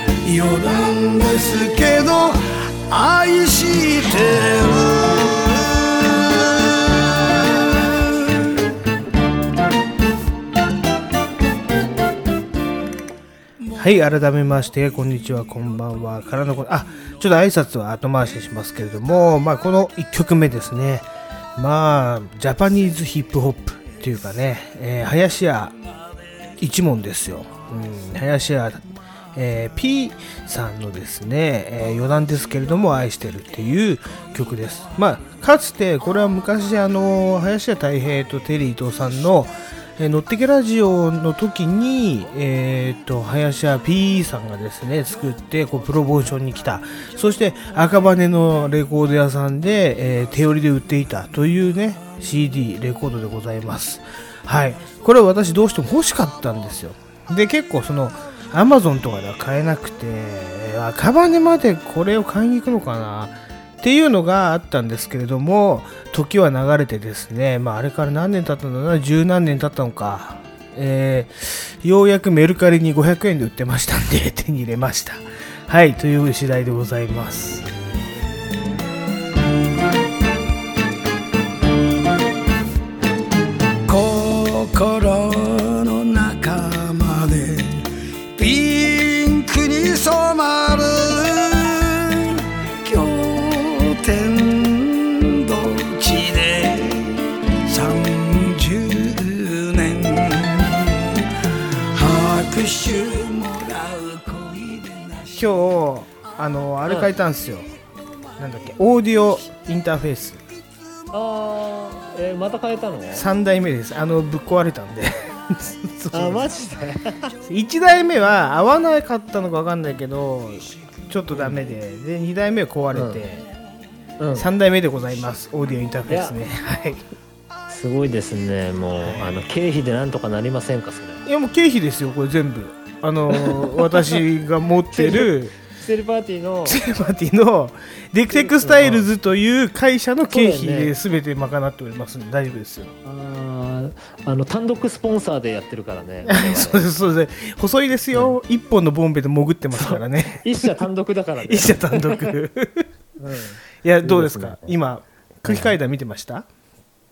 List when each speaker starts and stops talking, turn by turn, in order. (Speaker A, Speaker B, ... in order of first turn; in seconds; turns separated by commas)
Speaker A: 0.2-6.5, Speaker B: 13.8-25.7, Speaker B: 26.6-77.7, Speaker A: 83.9-87.8, Speaker A: 88.4-101.3, Speaker A: 102.0-105.5, Speaker B: 105.4-107.7, Speaker B: 108.4-110.4, Speaker C: 111.1-113.3, Speaker B: 113.1-116.5, Speaker C: 116.1-117.3, Speaker B: 117.5-123.5, Speaker C: 121.3-121.6, Speaker C: 122.9-123.2, Speaker C: 124.2-124.5, Speaker B: 124.4-127.1, Speaker C: 126.1-126.4, Speaker C: 127.7-131.2, Speaker B: 129.0-129.4, Speaker B: 131.3-135.6, Speaker C: 133.3-134.2, Speaker C: 134.9-136.8, Speaker B: 136.7-142.9, Speaker C: 138.3-139.1, Speaker C: 140.3-140.9, Speaker C: 143.0-146.8, Speaker B: 146.2-150.7, Speaker C: 149.7-152.3, Speaker B: 151.4-152.9, Speaker C: 153.2-154.7, Speaker B: 153.8-156.5, Speaker C: 155.5-155.8